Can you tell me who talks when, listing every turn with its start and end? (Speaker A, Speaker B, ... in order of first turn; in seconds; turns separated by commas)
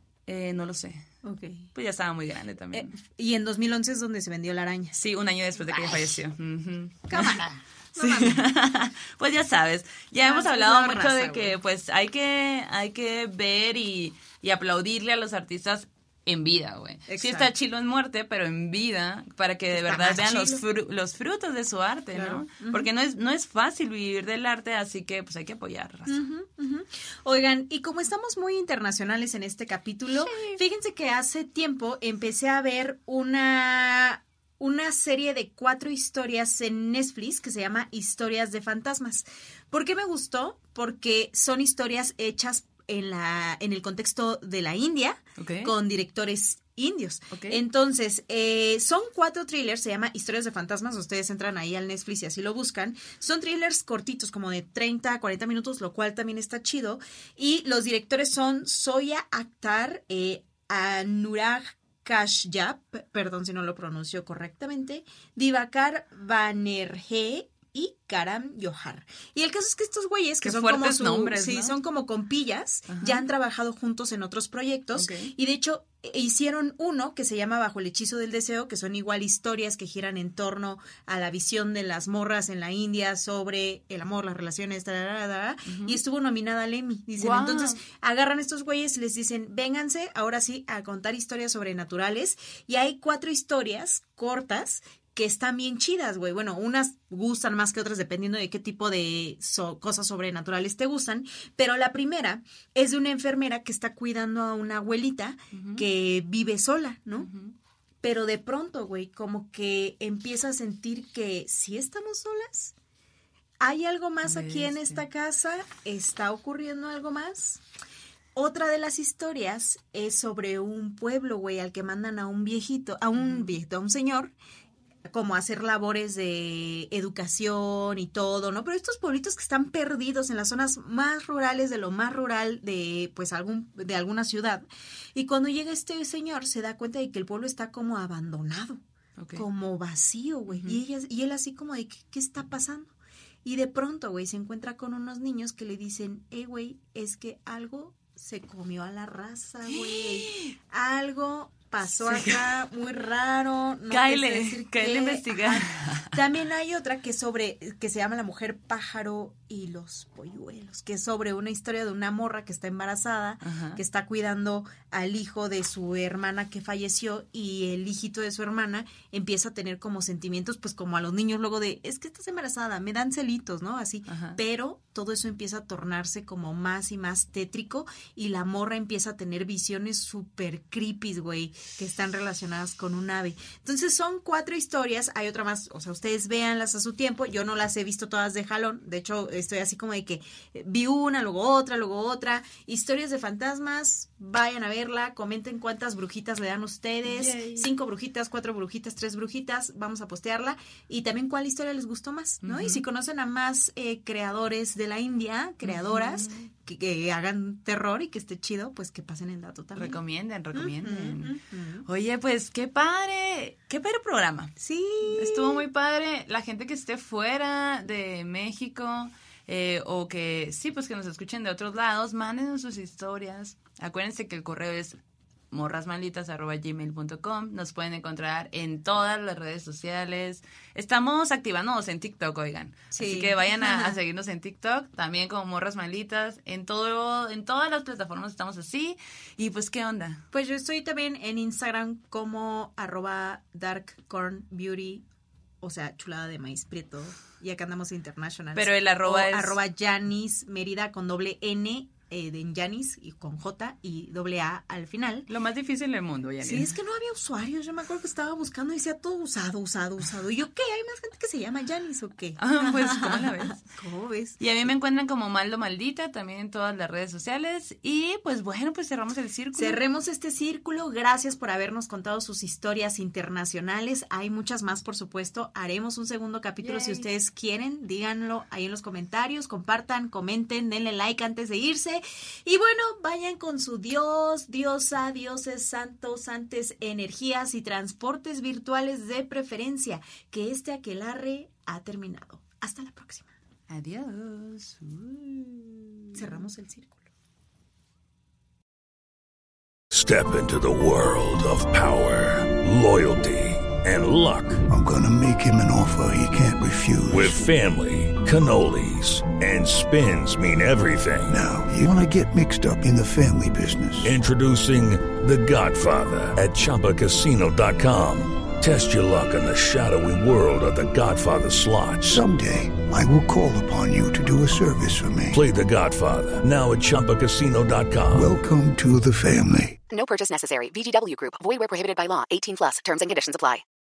Speaker A: 0.3-1.1, Speaker B: 1.2-1.7, Speaker A: 1.7-3.0, Speaker B: 2.7-5.0, Speaker A: 5.0-7.5, Speaker B: 5.6-6.0, Speaker B: 7.1-8.5, Speaker A: 8.0-26.2, Speaker B: 10.2-11.6, Speaker B: 17.1-17.5, Speaker B: 19.7-20.6, Speaker B: 22.1-22.9, Speaker B: 26.1-107.3, Speaker A: 30.2-30.6, Speaker A: 45.4-45.7, Speaker A: 47.3-47.6, Speaker A: 70.4-71.8, Speaker A: 72.9-73.2, Speaker A: 75.0-75.3, Speaker A: 85.7-86.0, Speaker A: 87.2-87.8, Speaker A: 105.5-105.9, Speaker A: 107.2-107.5, Speaker B: 108.0-112.7, Speaker B: 113.6-117.6, Speaker A: 114.2-115.0, Speaker B: 118.3-124.3, Speaker A: 123.2-123.5, Speaker B: 125.1-138.8, Speaker A: 139.2-139.4, Speaker B: 139.4-142.9, Speaker A: 140.5-140.8, Speaker B: 143.4-210.0, Speaker A: 149.7-150.5, Speaker A: 152.0-152.4, Speaker A: 153.9-156.2, Speaker A: 163.4-163.8, Speaker A: 174.1-174.4, Speaker A: 197.1-197.7, Speaker A: 202.4-202.8, Speaker A: 205.6-206.5, Speaker A: 209.8-225.0, Speaker B: 210.5-211.9, Speaker B: 214.6-215.7, Speaker A: 225.5-240.2, Speaker B: 232.9-234.0, Speaker B: 240.3-245.1, Speaker B: 245.6-255.3, Speaker A: 248.6-249.6, Speaker A: 255.3-256.7, Speaker B: 256.4-264.4, Speaker A: 262.4-263.6, Speaker A: 264.4-269.8, Speaker B: 269.6-293.3, Speaker A: 276.6-277.1, Speaker A: 293.7-296.4, Speaker B: 296.1-297.1, Speaker C: 299.9-304.6, Speaker D: 304.7-307.4, Speaker C: 307.1-311.4, Speaker D: 311.3-314.1, Speaker C: 314.0-322.2, Speaker D: 322.0-325.4, Speaker C: 325.3-328.3, Speaker D: 328.1-329.8, Speaker E: 329.9-333.6